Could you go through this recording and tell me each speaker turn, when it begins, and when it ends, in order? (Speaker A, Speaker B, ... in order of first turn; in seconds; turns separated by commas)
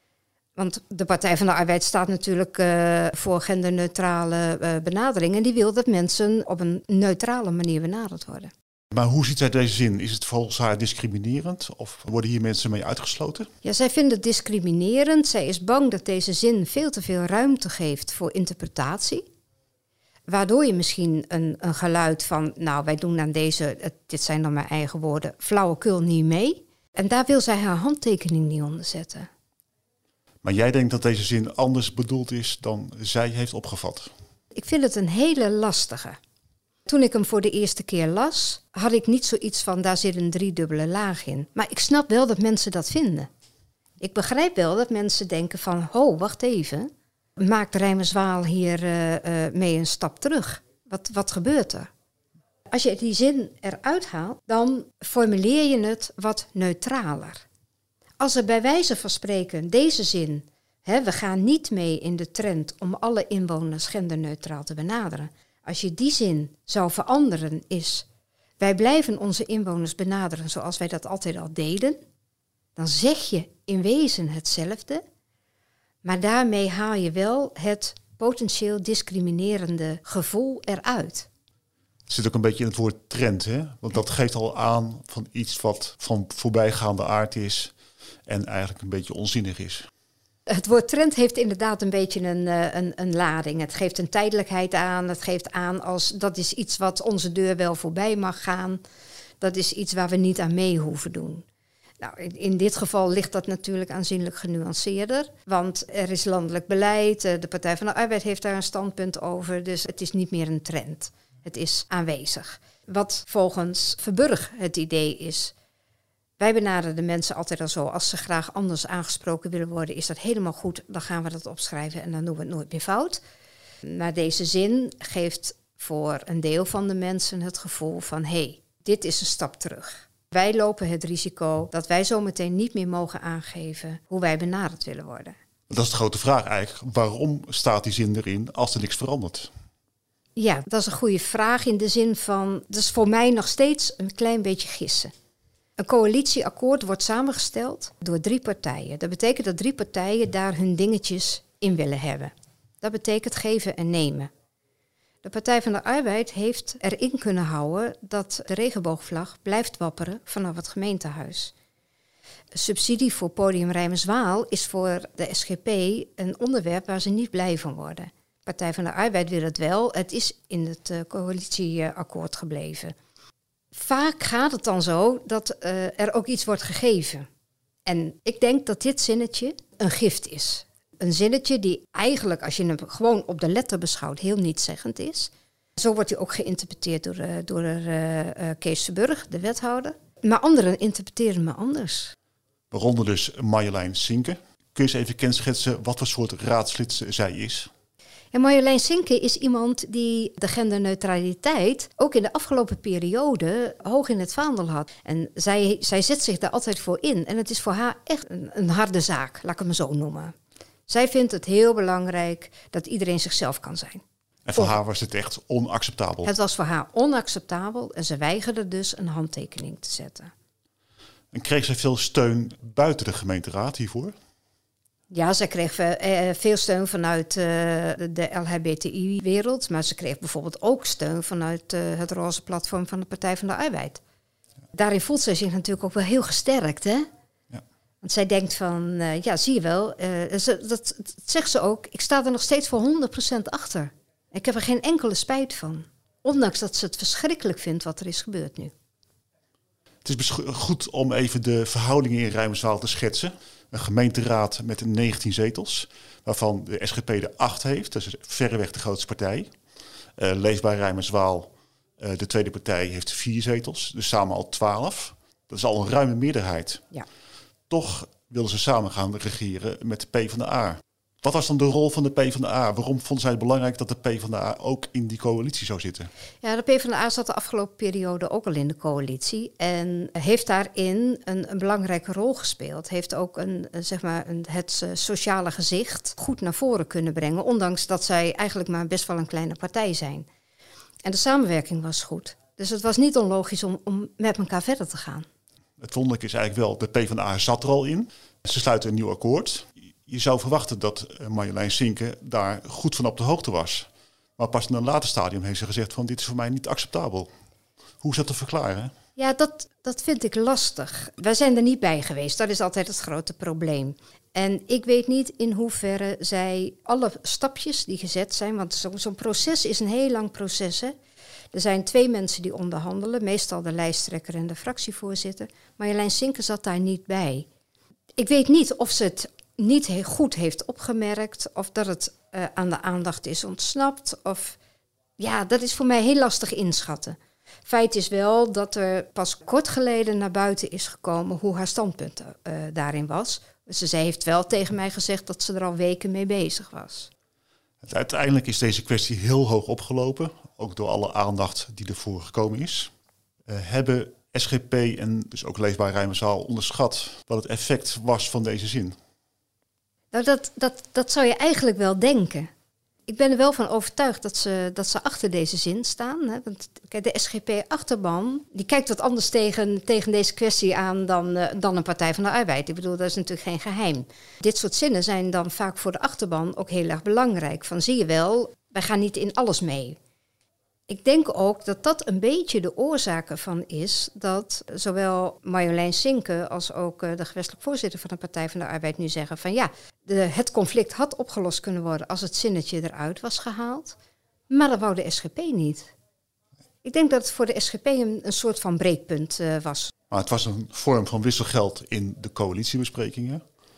Speaker A: 0.6-8.5, Speaker B: 8.9-13.5, Speaker A: 13.6-19.3, Speaker A: 20.3-29.3, Speaker B: 30.4-34.1, Speaker A: 34.5-36.2, Speaker A: 36.9-43.3, Speaker A: 44.0-51.9, Speaker A: 52.7-57.4, Speaker A: 58.2-68.0, Speaker A: 68.6-72.0, Speaker A: 72.8-75.0, Speaker A: 76.0-81.3, Speaker B: 82.1-87.7, Speaker B: 88.3-89.9, Speaker A: 90.5-98.8, Speaker A: 99.4-101.4, Speaker A: 102.0-115.5, Speaker A: 116.4-123.2, Speaker A: 123.8-135.3, Speaker B: 135.7-139.5, Speaker A: 140.3-145.1, Speaker A: 145.8-154.3, Speaker A: 155.2-161.5, Speaker A: 162.5-172.9, Speaker A: 173.7-177.3, Speaker A: 177.8-192.1, Speaker B: 192.7-197.7, Speaker A: 198.3-210.3, Speaker A: 210.9-214.0, Speaker B: 214.5-216.3, Speaker A: 216.2-220.3, Speaker B: 221.3-224.1, Speaker A: 225.1-234.0, Speaker A: 234.7-237.1, Speaker A: 238.0-248.7, Speaker B: 250.1-259.5, Speaker B: 260.2-266.8, Speaker B: 267.7-276.1, Speaker A: 276.4-290.3, Speaker A: 291.1-295.2, Speaker B: 295.8-307.3, Speaker B: 308.0-308.9, Speaker A: 309.2-320.9, Speaker A: 321.5-327.5, Speaker A: 328.2-334.6, Speaker A: 335.2-347.1, Speaker B: 347.8-352.9, Speaker B: 353.4-358.9, Speaker A: 360.1-362.5, Speaker A: 363.1-380.0, Speaker A: 380.9-393.9, Speaker A: 394.5-395.9, Speaker A: 396.8-399.9, Speaker B: 400.1-403.4